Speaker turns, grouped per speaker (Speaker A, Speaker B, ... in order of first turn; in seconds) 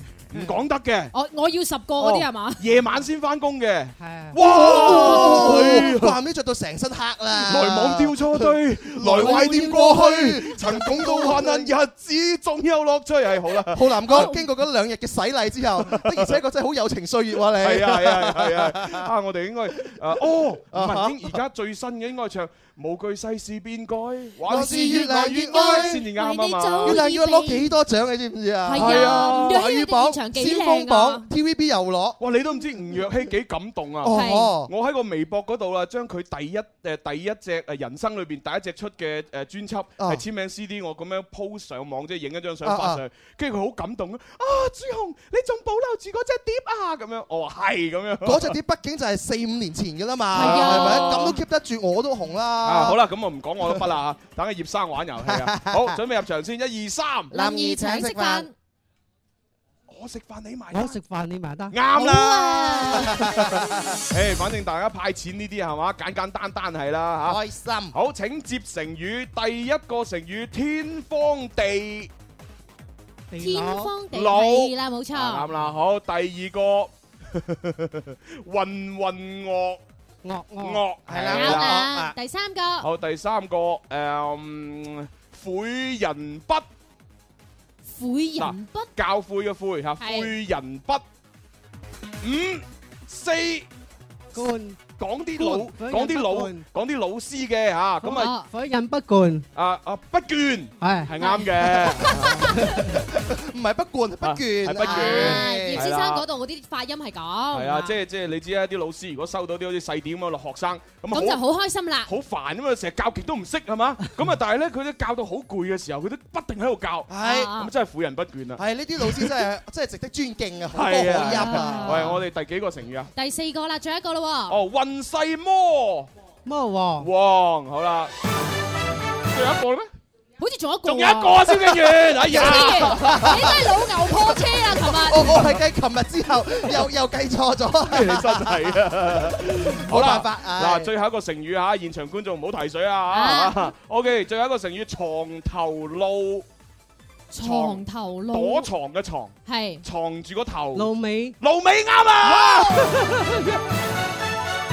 Speaker A: 0.3-1.1, 2.0-6.2, 7.4-14.3, 15.8-16.4, 17.6-27.0, 28.7-29.6, 32.2-48.5, 50.3-51.4, 52.6-57.3, 59.9-61.0, 61.7-63.4, 64.1-67.4, 67.9-72.1, 74.1-79.8, 80.6-81.8, 82.8-86.6, 88.4-91.0, 92.2-93.7, 95.0-98.3, 99.5-102.9, 104.2-106.2, 107.5-111.4, 112.0-119.4, 120.7-123.1, 124.5-126.1, 127.0-128.1, 129.3-129.9, 130.8-133.6, 137.9-146.4, 147.4-153.3
Speaker B: 0.3-0.6, 4.4-11.6, 13.7-19.1, 20.7-21.4, 24.4-26.0, 26.8-32.2, 34.0-34.7, 42.6-43.0, 48.2-53.0, 53.6-53.9, 55.2-56.0, 57.3-58.5, 63.0-63.9, 67.2-67.9, 81.1-82.1, 102.9-105.9, 117.1-117.5, 118.6-122.1, 132.2-140.9
Speaker C: 1.1-2.6, 4.6-5.6, 9.2-9.6, 14.1-14.4, 24.7-27.7, 28.6-31.2, 34.1-34.5, 50.3-51.4, 57.3-58.5, 61.9-63.5, 73.4-75.5, 81.3-82.9, 87.9-88.9, 90.0-90.3, 98.0-98.5, 101.2-102.5, 104.8-107.9, 111.1-112.1, 117.2-117.7, 121.2-122.2, 123.1-124.5, 130.4-131.7, 132.3-135.3, 143.1-143.7, 147.3-148.7, 149.5-149.8, 152.4-152.9
Speaker D: 4.0-4.4, 60.7-61.7, 73.3-73.9, 80.2-80.8, 94.3-96.7, 98.3-99.5, 100.8-101.1, 126.4-127.1, 150.7-151.3